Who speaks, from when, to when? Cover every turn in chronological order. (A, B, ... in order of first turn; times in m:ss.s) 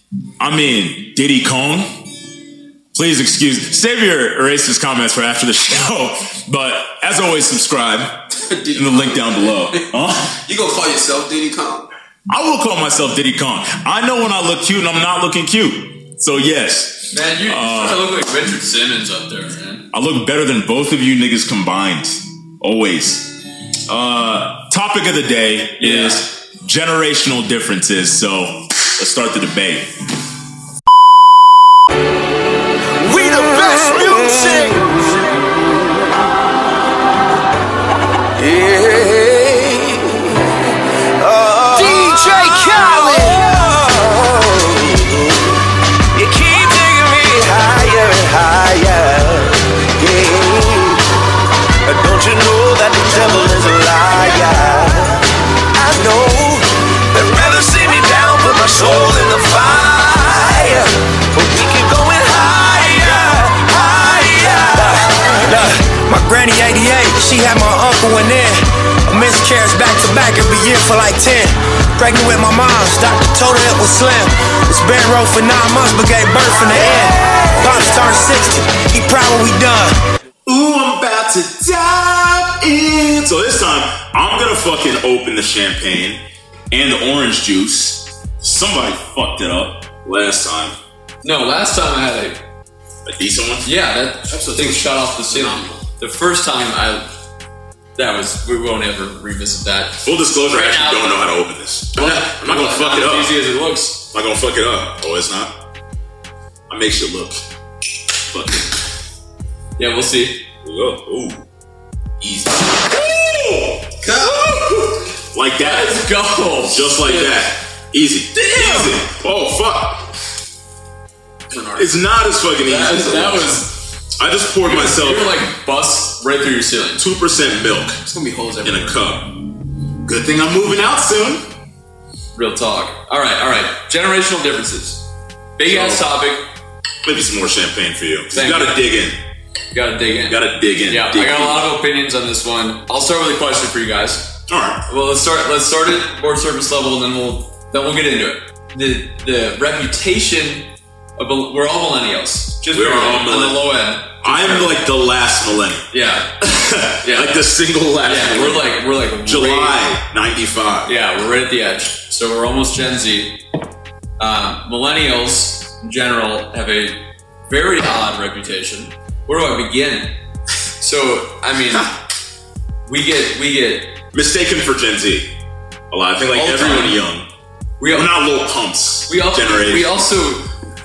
0:00.4-0:02.0 A
0:02.9-0:08.2 A
0:08.4-0:11.9 B
0:08.7-0:10.3 A
0:12.3-0:18.0 A
0:17.1-0:19.9 C
0:19.9-0:29.9 A
0:25.8-0:26.2 C
0:33.0-0:35.2 D
0:33.9-0:34.5 A
0:38.3-0:40.5 D
0:41.2-0:45.6 D
0:41.8-0:42.4 E
0:46.1-0:51.0 D
0:51.8-0:55.2 D
0:55.7-1:05.3 D
1:05.4-1:20.0 E
1:20.4-1:30.8 A
1:31.2-1:32.4 C
1:33.0-1:33.7 A
1:33.6-1:37.1 C
1:34.3-1:35.8 B
1:38.0-1:41.3 C
1:40.0-1:43.4 A
1:41.9-1:44.1 C
1:44.1-1:45.5 A
1:46.7-1:47.4 A
1:48.3-1:48.7 A
1:49.8-1:50.4 C
1:50.6-1:51.4 A
1:52.2-1:54.0 A
1:54.0-1:54.5 B
1:55.3-1:56.0 A
1:55.6-1:57.0 C
1:56.6-2:00.1 A
1:57.0-1:57.4 B
1:58.4-1:58.9 C
2:01.5-2:02.0 B
2:01.8-2:03.6 A
2:02.6-2:03.8 C
2:04.2-2:05.4 A
2:04.6-2:07.0 C
2:07.0-2:08.0 A
2:08.0-2:09.0 B
2:08.6-2:09.4 A
2:10.0-2:11.4 A
2:12.3-2:15.0 C
2:15.6-2:16.4 C
2:15.6-2:16.0 A
2:17.0-2:19.2 A
2:18.3-2:18.8 C
2:19.7-2:24.3 C
2:20.3-2:21.6 A
2:24.5-2:24.8 A
2:24.9-2:34.8 C
2:32.7-2:35.9 A
2:35.9-2:36.4 C
2:36.4-2:40.9 A
2:36.9-2:37.4 C
2:38.0-2:39.8 C
2:40.8-2:43.4 C
2:44.2-2:50.1 C
2:50.8-2:51.9 C
2:52.8-2:54.0 C
2:54.1-2:55.3 A
2:55.9-2:57.3 A
2:56.3-2:57.0 C
2:57.8-2:58.2 C
2:57.9-3:00.0 A
2:59.1-3:00.5 C